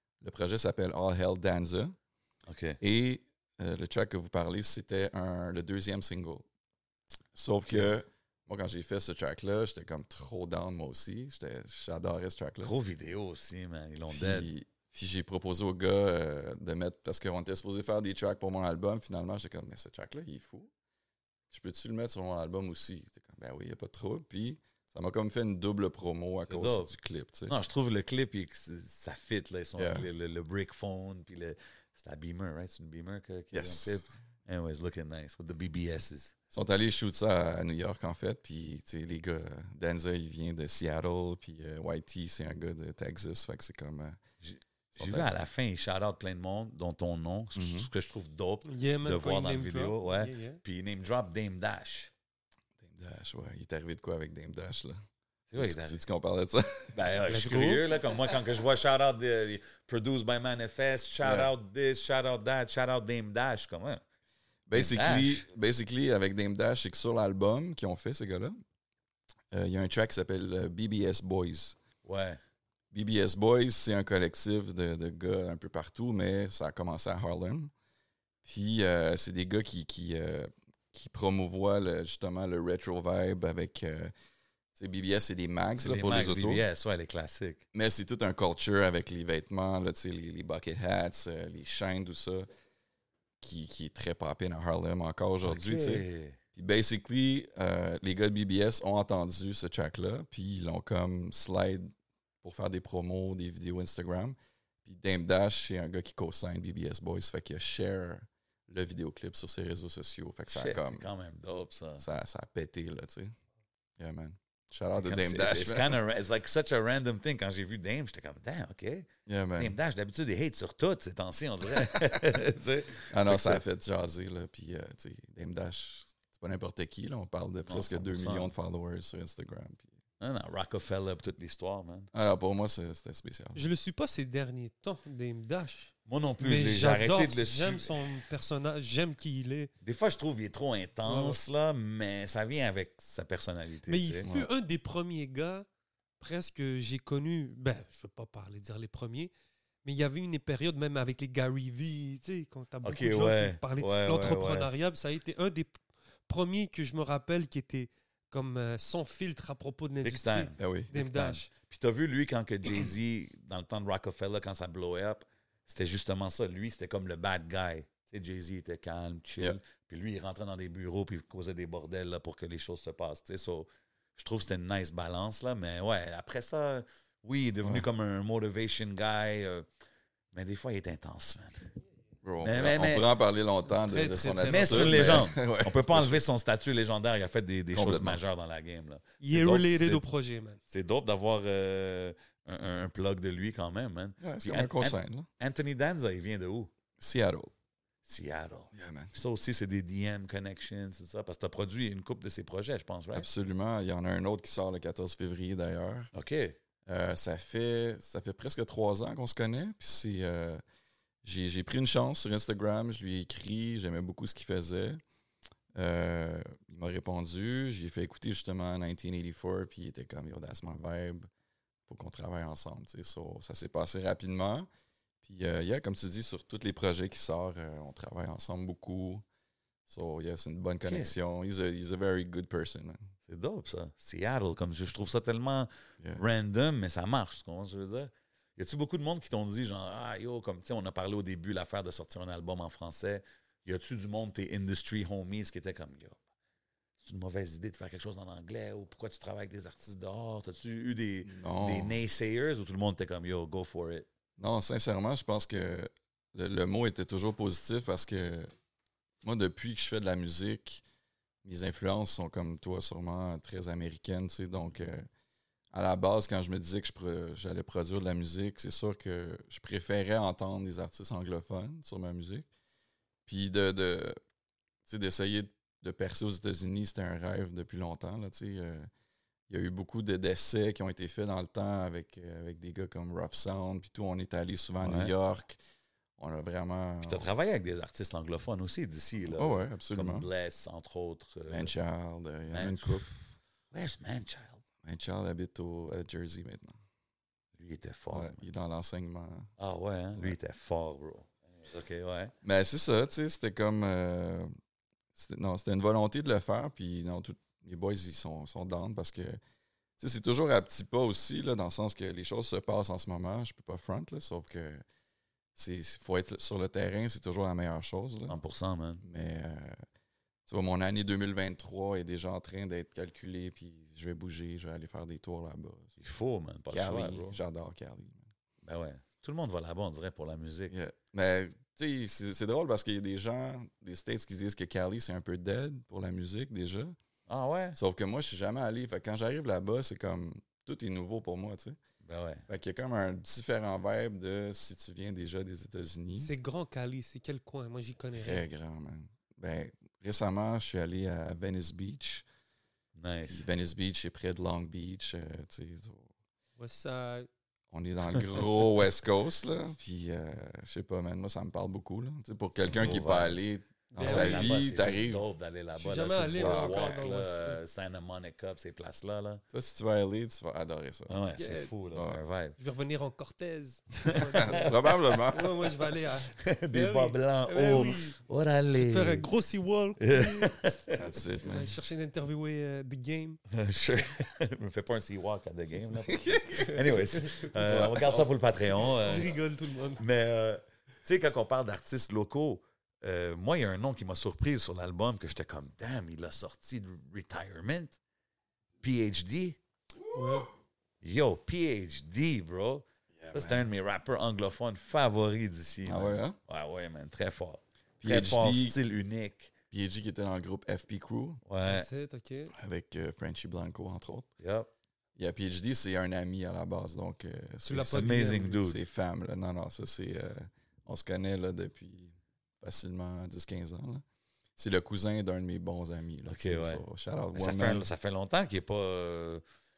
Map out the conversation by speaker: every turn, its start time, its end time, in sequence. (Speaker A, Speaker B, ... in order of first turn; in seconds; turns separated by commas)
Speaker A: 0.2-1.9, Speaker B: 2.5-2.8, Speaker A: 2.8-6.5, Speaker A: 7.3-12.7, Speaker B: 7.7-7.9, Speaker B: 12.6-14.5, Speaker A: 14.1-20.7, Speaker A: 21.5-27.5, Speaker B: 26.5-26.9, Speaker B: 27.5-36.3, Speaker A: 29.8-30.1, Speaker A: 33.5-34.0, Speaker A: 36.5-44.2, Speaker B: 44.4-52.1, Speaker A: 44.9-45.3, Speaker A: 47.5-47.9, Speaker C: 48.6-50.6, Speaker A: 52.8-55.0, Speaker B: 55.5-56.0, Speaker A: 55.5-57.0, Speaker B: 56.9-64.0, Speaker C: 57.3-57.8, Speaker A: 61.2-61.5, Speaker A: 64.7-68.6, Speaker B: 64.7-65.4, Speaker A: 69.5-71.8, Speaker B: 72.0-72.4, Speaker A: 72.9-77.7, Speaker A: 78.4-84.1, Speaker A: 84.7-86.6, Speaker B: 85.8-87.6, Speaker A: 87.7-92.5, Speaker A: 93.4-111.1, Speaker B: 95.4-96.4, Speaker B: 110.5-112.0, Speaker A: 112.0-113.3, Speaker A: 114.0-116.0, Speaker B: 114.9-123.6, Speaker A: 119.3-119.8, Speaker A: 121.8-122.3, Speaker A: 123.1-129.9, Speaker B: 127.7-128.5, Speaker B: 130.2-132.1, Speaker A: 132.1-133.6, Speaker C: 133.5-139.7, Speaker B: 136.1-138.2, Speaker B: 139.8-144.3, Speaker C: 141.0-141.4, Speaker C: 143.9-145.7, Speaker A: 144.2-144.5, Speaker C: 146.2-149.3, Speaker C: 149.8-161.5, Speaker B: 152.8-154.7, Speaker B: 160.0-179.7, Speaker A: 160.6-160.9, Speaker B: 180.3-181.7, Speaker A: 182.2-186.2, Speaker B: 182.4-183.1, Speaker C: 183.7-185.2, Speaker B: 184.4-190.0, Speaker A: 187.7-188.2, Speaker C: 189.2-190.6, Speaker B: 190.7-196.7, Speaker A: 194.2-195.3, Speaker A: 197.0-197.5, Speaker B: 198.0-203.3, Speaker A: 198.7-199.1, Speaker A: 203.1-206.1, Speaker B: 206.1-206.6, Speaker A: 206.9-210.6, Speaker A: 211.2-215.0, Speaker A: 215.7-221.3, Speaker A: 221.9-224.7, Speaker A: 225.2-229.2, Speaker A: 229.9-233.0, Speaker B: 230.8-231.1, Speaker B: 233.3-246.2, Speaker B: 247.0-254.1, Speaker A: 251.2-252.0, Speaker A: 254.4-258.5, Speaker A: 259.2-260.8, Speaker A: 261.4-265.1, Speaker A: 265.7-272.5, Speaker A: 273.2-274.2, Speaker A: 274.9-278.9, Speaker A: 279.5-285.6, Speaker B: 284.8-285.1, Speaker A: 286.2-287.3, Speaker B: 287.0-291.7, Speaker A: 289.3-290.3, Speaker A: 291.5-293.1, Speaker B: 292.5-294.6, Speaker A: 294.8-296.8, Speaker B: 297.6-298.4, Speaker A: 298.1-299.5, Speaker B: 299.6-302.3, Speaker A: 302.4-304.5, Speaker A: 305.1-309.4, Speaker A: 310.0-314.8, Speaker A: 315.5-318.4, Speaker B: 318.3-319.0, Speaker A: 319.0-319.8, Speaker A: 320.5-325.9, Speaker B: 326.0-327.4, Speaker A: 326.7-328.2, Speaker B: 328.6-330.7, Speaker A: 330.7-336.9, Speaker B: 337.3-337.8, Speaker A: 337.7-341.8, Speaker B: 342.0-342.4, Speaker A: 342.5-346.3, Speaker C: 346.2-348.4, Speaker A: 348.2-352.2, Speaker B: 352.9-353.4, Speaker A: 353.3-356.1, Speaker C: 356.6-357.3, Speaker A: 357.7-365.2, Speaker B: 362.6-363.4, Speaker C: 363.9-365.0, Speaker B: 364.0-369.4, Speaker C: 365.8-367.6, Speaker A: 366.4-367.0, Speaker A: 369.5-371.2, Speaker B: 371.1-372.6, Speaker C: 371.4-371.7, Speaker A: 371.9-372.2, Speaker C: 372.6-378.2, Speaker B: 374.0-374.8, Speaker A: 374.3-375.7, Speaker B: 376.3-379.3, Speaker C: 378.8-380.6, Speaker B: 380.0-381.1, Speaker A: 380.9-381.7, Speaker C: 381.4-383.4, Speaker B: 383.5-389.4, Speaker A: 386.1-387.0, Speaker C: 386.6-387.9, Speaker A: 387.6-388.3, Speaker C: 388.8-390.0, Speaker B: 390.0-398.0, Speaker B: 398.8-399.6, Speaker A: 400.0-400.4, Speaker C: 400.1-400.5, Speaker B: 401.0-409.5, Speaker A: 403.1-403.7, Speaker A: 405.9-406.4, Speaker A: 408.0-408.8, Speaker A: 409.7-411.4, Speaker B: 411.4-411.9, Speaker C: 411.6-412.5, Speaker A: 412.5-414.3, Speaker B: 414.4-414.7, Speaker A: 415.1-424.0, Speaker C: 417.6-418.6, Speaker B: 417.9-418.8, Speaker A: 424.6-427.9, Speaker B: 426.3-426.8, Speaker B: 427.3-429.4